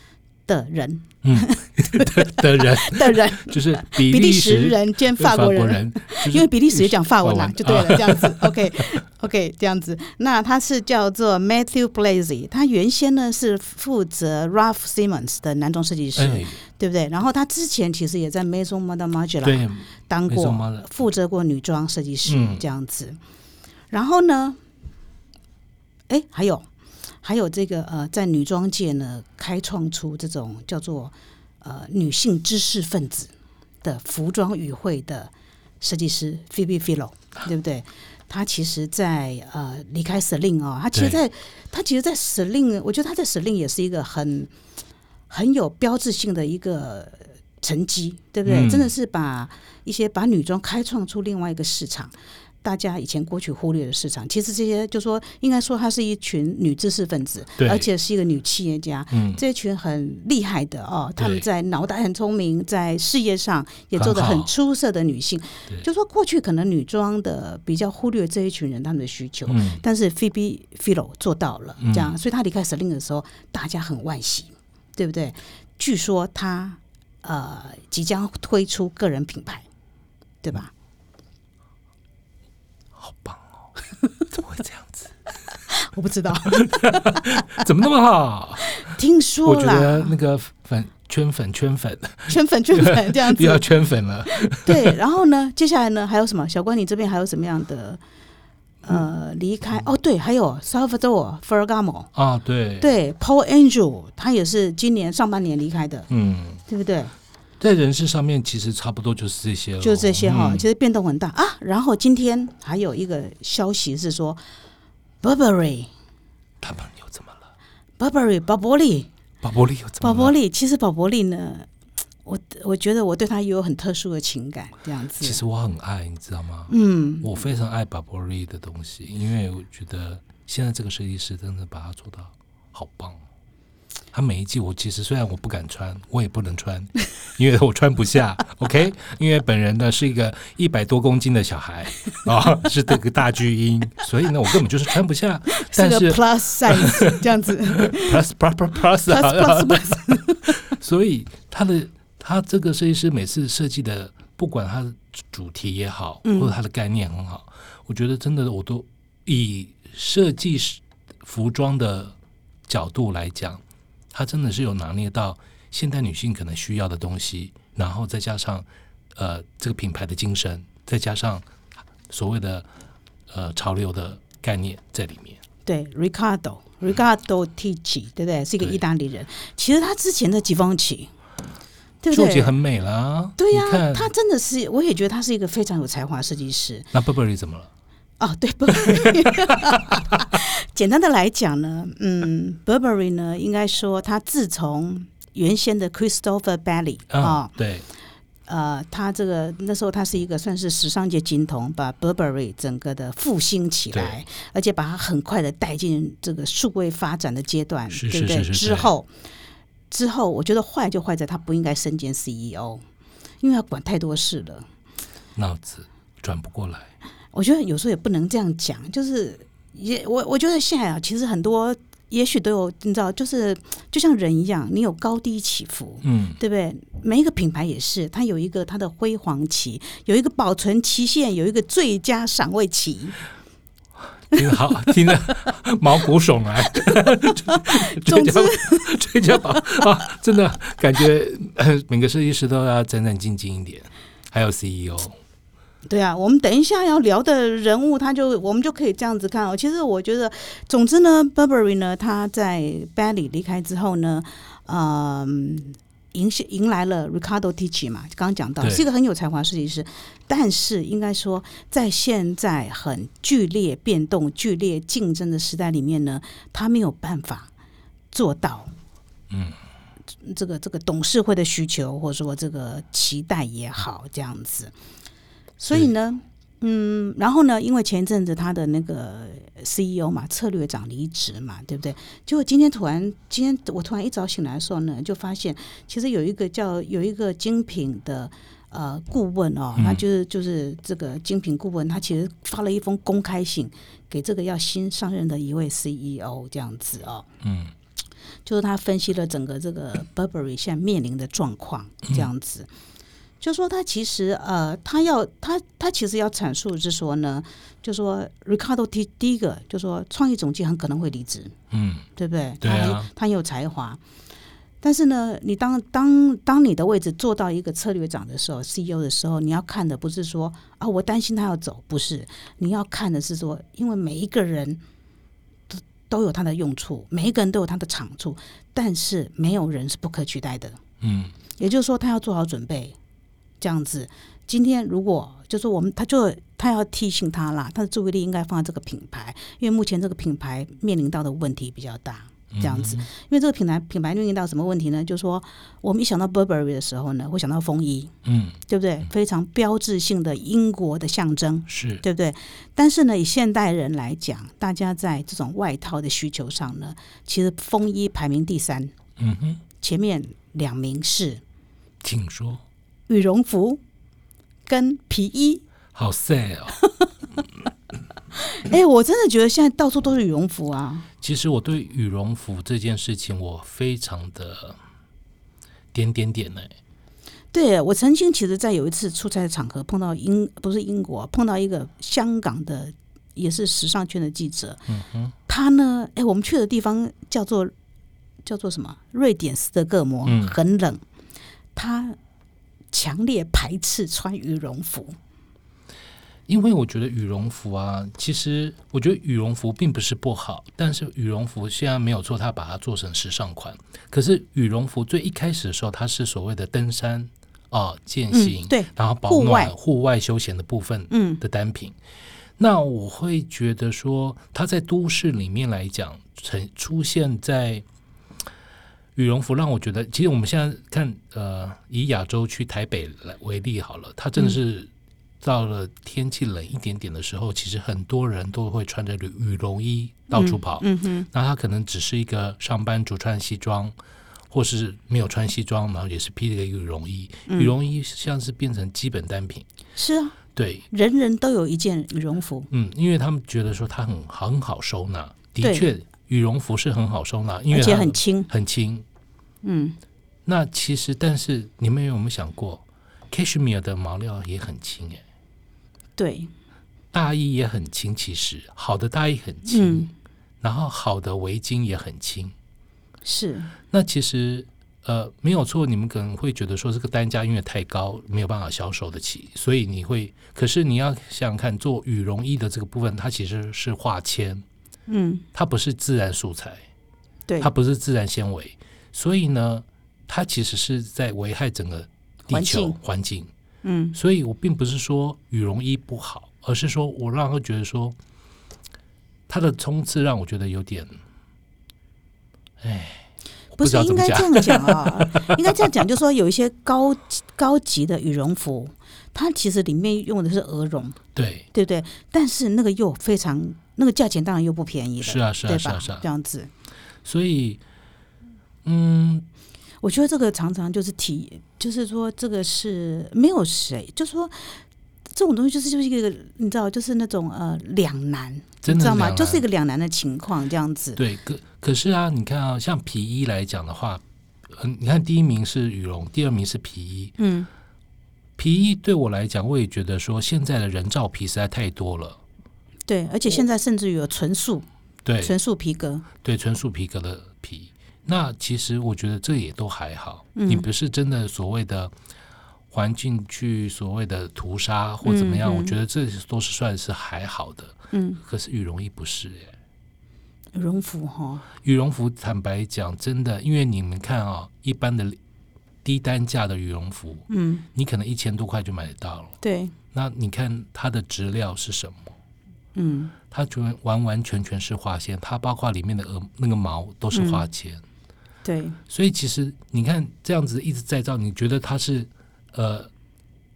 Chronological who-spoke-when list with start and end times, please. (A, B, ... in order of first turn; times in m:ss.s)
0:00.5-0:23.2 A
0:01.2-0:08.6 B
0:16.2-0:16.6 B
0:19.4-0:20.9 B
0:22.2-0:22.6 B
0:23.9-0:24.6 A
0:26.1-0:26.7 A
0:27.2-0:33.3 A
0:33.8-0:44.5 A
0:40.9-0:41.2 B
0:45.3-1:19.6 A
0:48.4-0:48.9 B
0:57.6-0:57.9 B
0:59.1-0:59.4 B
1:01.2-1:01.4 B
1:03.9-1:04.5 B
1:09.5-1:09.8 B
1:11.8-1:12.1 B
1:20.4-1:20.7 A
1:23.0-1:23.4 B
1:24.3-1:25.1 B
1:25.7-1:27.6 A
1:26.4-1:28.8 B
1:28.7-1:30.1 A
1:29.4-1:35.0 B
1:32.3-1:33.7 A
1:34.3-1:38.0 A
1:38.8-1:42.1 A
1:42.1-1:42.9 B
1:42.8-1:46.1 A
1:46.1-1:46.6 B
1:46.7-1:47.1 A
1:47.6-1:50.6 B
1:49.8-1:54.4 A
1:55.2-1:55.9 A
1:56.6-1:57.4 B
1:58.0-1:59.1 A
1:59.4-2:00.3 B
2:00.0-2:01.7 A
2:02.2-2:05.4 A
2:05.2-2:13.2 B
2:06.7-2:07.4 A
2:14.1-2:27.2 B
2:25.5-2:28.2 A
2:27.8-2:42.2 B
2:29.0-2:30.7 A
2:36.2-2:36.5 A
2:42.7-2:43.6 B
2:44.1-2:51.4 B
2:52.1-2:52.7 B
2:53.3-2:55.4 B
2:55.6-3:01.1 A
3:02.0-3:02.5 A
3:02.1-3:04.1 B
3:03.4-3:06.9 A
3:06.9-3:07.7 B
3:08.2-3:17.5 A
3:08.8-3:10.2 B
3:17.1-3:17.8 B
3:18.5-3:29.1 A
3:23.9-3:24.2 B
3:27.9-3:28.9 B
3:29.9-3:32.8 A
3:33.4-3:34.6 A
3:35.4-3:36.9 B
3:37.3-3:53.2 A
3:46.0-3:46.4 B
3:54.3-4:05.1 B
3:57.2-3:59.9 A
4:05.9-4:27.5 A
4:28.1-4:28.7 A
4:29.3-4:29.6 B
4:30.2-4:34.7 A
4:35.6-4:57.3 A
4:49.8-4:50.0 B
4:57.4-4:57.7 B
4:58.4-5:02.7 A
5:03.4-5:11.5 A
5:11.7-5:12.1 B
5:12.2-5:14.0 A
5:12.6-5:13.1 B
5:14.8-5:24.8 A
5:25.7-5:30.8 A
5:31.0-5:31.3 B
5:31.6-5:33.0 A
5:33.6-5:48.1 A
5:42.5-5:43.1 B
5:48.2-5:48.6 B
5:48.7-5:58.9 A
5:51.7-5:52.0 B
5:59.2-5:59.6 B
5:59.8-6:01.4 A
6:02.0-6:02.6 B
6:03.1-6:03.8 A
6:04.7-6:05.6 A
6:05.9-6:06.8 B
6:06.8-6:07.1 A
6:08.3-6:11.1 A
6:11.2-6:14.8 B
6:15.9-6:16.7 B
6:17.5-6:24.8 A
6:24.9-6:25.3 B
6:25.5-6:27.7 A
6:28.4-6:31.0 A
6:30.2-6:30.6 B
6:31.7-6:32.2 A
6:32.9-6:35.2 A
6:36.5-6:52.0 B
6:48.3-6:49.7 A
6:51.1-6:51.4 A
6:52.6-6:57.8 B
6:59.1-7:04.9 B
7:05.4-7:13.9 B
7:10.3-7:11.3 A
7:14.5-7:19.6 B
7:17.5-7:17.7 A
7:20.0-7:20.4 A
7:20.5-7:20.8 B
7:20.9-7:22.7 A
7:22.7-7:29.0 B
7:25.6-7:25.9 A
7:27.7-7:28.5 A
7:29.6-7:30.0 A
7:30.4-7:35.2 B
7:36.2-7:36.5 A
7:37.1-7:40.1 B
7:39.7-7:40.1 A
7:40.6-7:42.5 B
7:43.2-7:43.7 A
7:43.9-7:54.6 B
7:55.1-7:55.4 A
7:55.5-7:56.8 B
7:57.6-8:03.5 B
8:02.5-8:03.0 A
8:03.8-8:04.2 A
8:04.1-8:08.2 B
8:09.5-8:11.1 B
8:12.8-8:13.2 B
8:13.8-8:15.8 B
8:13.8-8:21.2 A
8:21.3-8:21.7 B
8:21.7-8:26.7 A
8:25.2-8:26.2 B
8:27.2-8:27.8 B
8:28.8-8:29.4 B
8:30.0-8:34.8 A
8:35.3-8:41.2 A
8:38.8-8:39.6 B
8:41.2-8:47.3 B
8:47.4-8:47.7 A
8:48.6-8:52.4 B
8:53.1-8:54.8 A
8:55.2-8:55.5 B
8:55.4-8:56.2 A
8:56.4-9:02.1 B
9:00.5-9:00.9 A
9:02.9-9:09.7 B
9:05.2-9:05.9 A
9:08.1-9:08.4 A
9:10.7-9:11.6 A
9:11.8-9:15.4 B
9:16.0-9:19.6 B
9:17.5-9:17.8 A
9:19.6-9:19.9 A
9:20.1-9:22.3 B
9:23.0-9:23.3 A
9:23.5-9:28.0 B
9:27.3-9:27.6 A
9:28.6-9:29.0 A
9:29.1-9:33.1 B